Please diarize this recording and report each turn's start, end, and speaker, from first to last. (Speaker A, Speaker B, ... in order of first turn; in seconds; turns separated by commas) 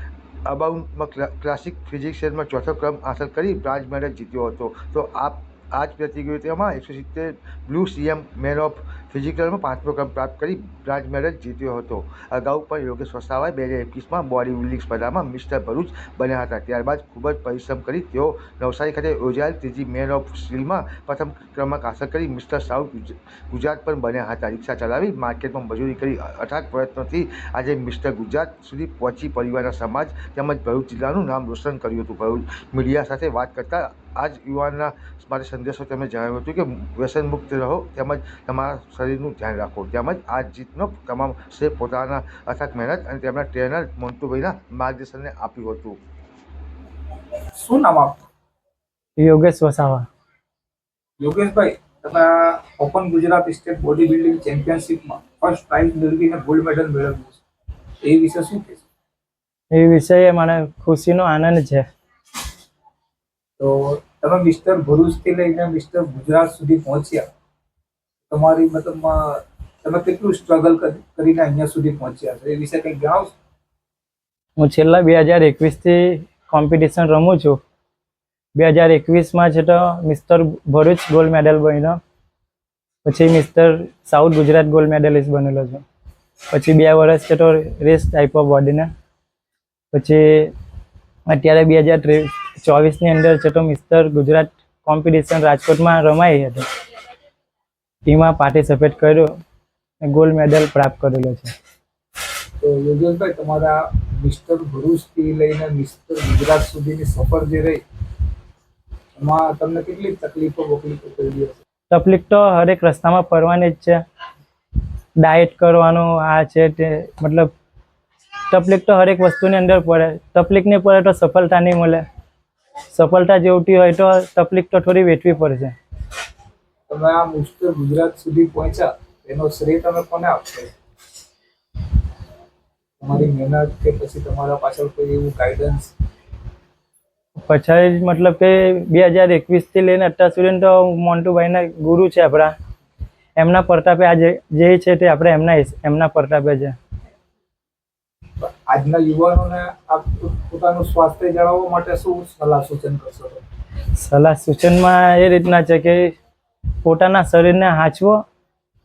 Speaker A: 0.5-46.0, Speaker B: 47.5-48.2, Speaker C: 49.2-50.1, Speaker B: 51.2-57.4, Speaker B: 58.0-58.8, Speaker C: 59.7-61.8, Speaker B: 63.6-67.3, Speaker B: 68.3-73.3, Speaker C: 74.6-77.6, Speaker C: 78.5-82.0, Speaker C: 83.0-85.8, Speaker C: 86.5-88.9, Speaker C: 89.9-90.5, Speaker C: 91.3-96.6, Speaker C: 98.0-99.3, Speaker C: 100.0-101.5, Speaker B: 102.6-107.8, Speaker B: 109.2-111.6, Speaker C: 111.9-114.0, Speaker C: 115.2-117.5, Speaker C: 118.5-122.0, Speaker C: 122.9-125.8, Speaker B: 126.9-130.7, Speaker B: 133.0-135.9, Speaker C: 137.3-142.5, Speaker C: 143.3-146.7, Speaker B: 148.4-153.4, Speaker C: 154.0-156.2, Speaker C: 156.8-158.2